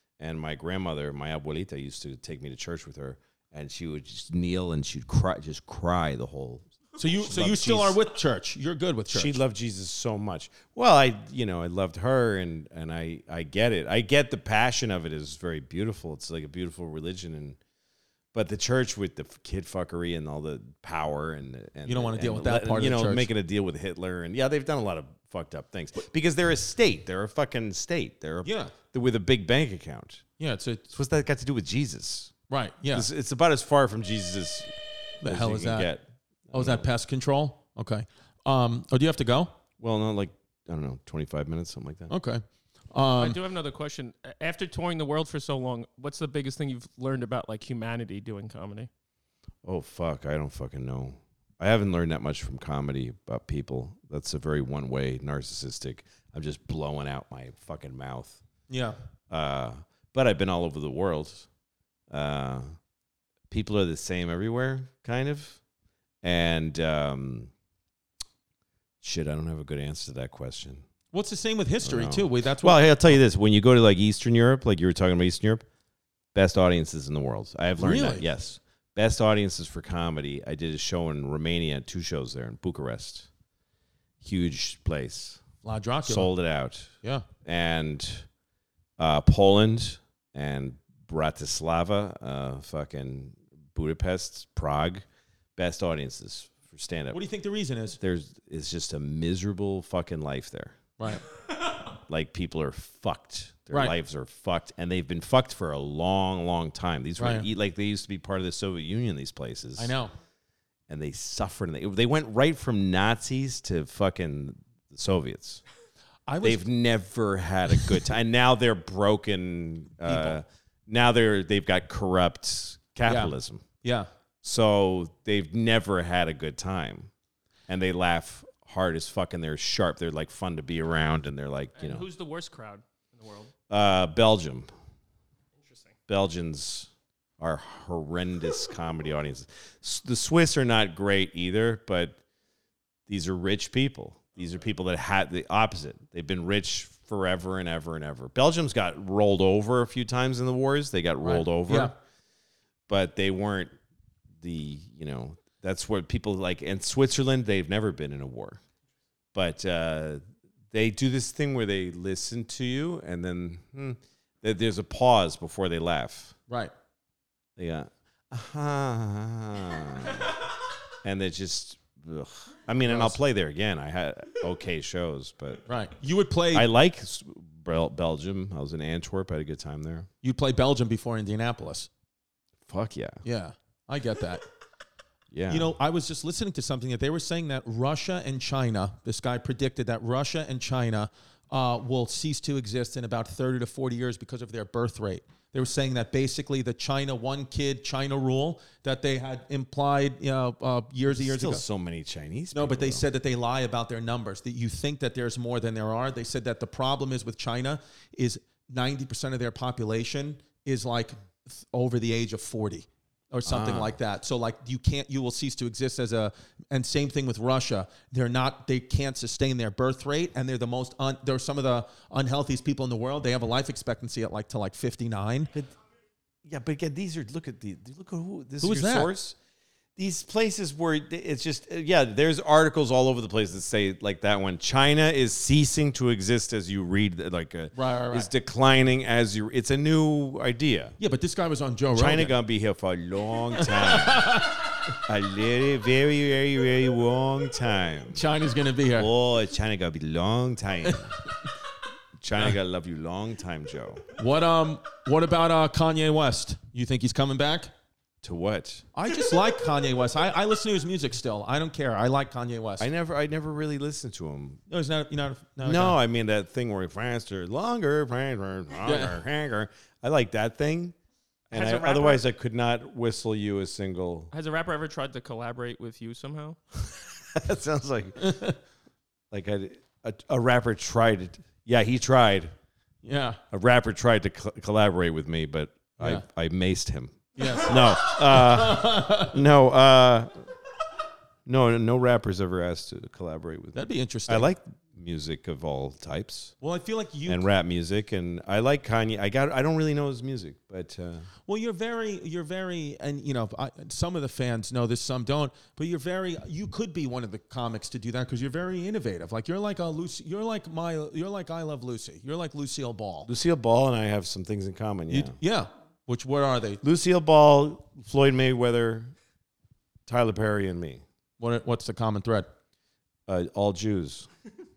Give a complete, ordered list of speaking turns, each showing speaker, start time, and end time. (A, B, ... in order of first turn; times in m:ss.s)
0:00.2-0:08.0 A
0:07.0-0:09.4 B
0:09.1-0:17.6 A
0:18.3-0:30.2 A
0:21.9-0:23.3 B
0:28.4-0:28.7 B
0:30.4-0:30.8 B
0:30.9-0:32.3 A
0:32.5-0:33.1 B
0:32.9-0:36.9 A
0:35.2-0:35.9 B
0:36.5-0:39.5 B
0:39.8-0:42.1 A
0:42.1-0:43.4 B
0:43.2-0:48.9 C
0:49.6-0:58.4 A
0:58.7-0:59.0 B
0:59.3-1:01.5 A
1:02.1-1:02.8 A
1:03.5-1:05.6 A
1:06.2-1:07.5 A
1:09.0-1:10.8 A
1:11.1-1:13.2 B
1:11.8-1:15.7 A
1:16.3-1:23.3 A
1:17.8-1:18.3 B
1:24.2-1:25.4 A
1:25.6-1:26.3 B
1:26.0-1:26.9 A
1:27.4-1:28.3 A
1:29.0-1:35.0 A
1:35.6-1:37.2 A
1:37.1-1:38.0 B
1:38.0-1:40.8 A
1:42.0-1:49.9 A
1:47.2-1:47.5 B
1:49.8-1:50.1 B
1:50.9-1:55.6 A
1:56.3-1:56.7 B
1:56.4-2:03.6 A
2:00.0-2:00.4 B
2:03.1-2:04.1 B
2:04.4-2:07.1 A
2:07.7-2:12.1 A
2:11.8-2:13.5 C
2:13.7-2:14.7 A
2:15.6-2:15.9 C
2:16.1-2:22.2 A
2:23.1-2:31.9 A
2:31.2-2:31.9 B
2:32.9-2:33.7 A
2:34.4-2:38.6 A
2:39.3-2:46.4 A
2:47.6-2:50.4 A
2:51.0-2:55.6 A
2:52.9-2:53.2 B
2:55.7-2:56.7 B
2:56.5-3:00.1 A
3:00.2-3:01.9 B
3:02.7-3:03.2 A
3:03.2-3:04.4 B
3:05.3-3:05.8 A
3:05.5-3:21.6 B
3:21.1-3:23.0 A
3:22.5-3:45.5 B
3:33.5-3:34.0 A
3:46.4-3:49.4 A
3:48.6-3:49.1 B
3:50.0-4:01.0 A
3:57.8-3:58.3 B
4:01.0-4:02.4 B
4:01.9-4:08.2 A
4:03.6-4:04.8 B
4:08.1-4:09.1 B
4:09.0-4:11.1 A
4:12.2-4:14.0 A
4:14.2-4:17.7 B
4:18.2-4:18.9 A
4:18.9-4:22.9 B
4:22.8-4:24.6 A
4:24.7-4:26.0 B
4:25.6-4:31.0 A
4:28.8-4:29.2 B
4:31.5-4:34.3 A
4:31.6-4:32.2 C
4:31.6-4:32.0 B
4:34.3-4:36.6 C
4:36.8-4:38.4 A
4:38.2-4:38.6 B
4:39.3-4:42.5 A
4:43.0-4:43.4 B
4:43.5-4:50.4 A
4:47.4-4:49.4 B
4:51.5-4:56.5 A
4:53.7-4:54.5 B
4:56.6-4:57.4 B
4:57.3-5:01.3 A
5:01.5-5:13.3 B
5:13.3-5:15.4 A
5:15.1-5:16.8 B
5:16.8-5:19.1 A
5:20.1-5:21.0 A
5:21.4-5:22.5 B
5:23.3-5:24.3 A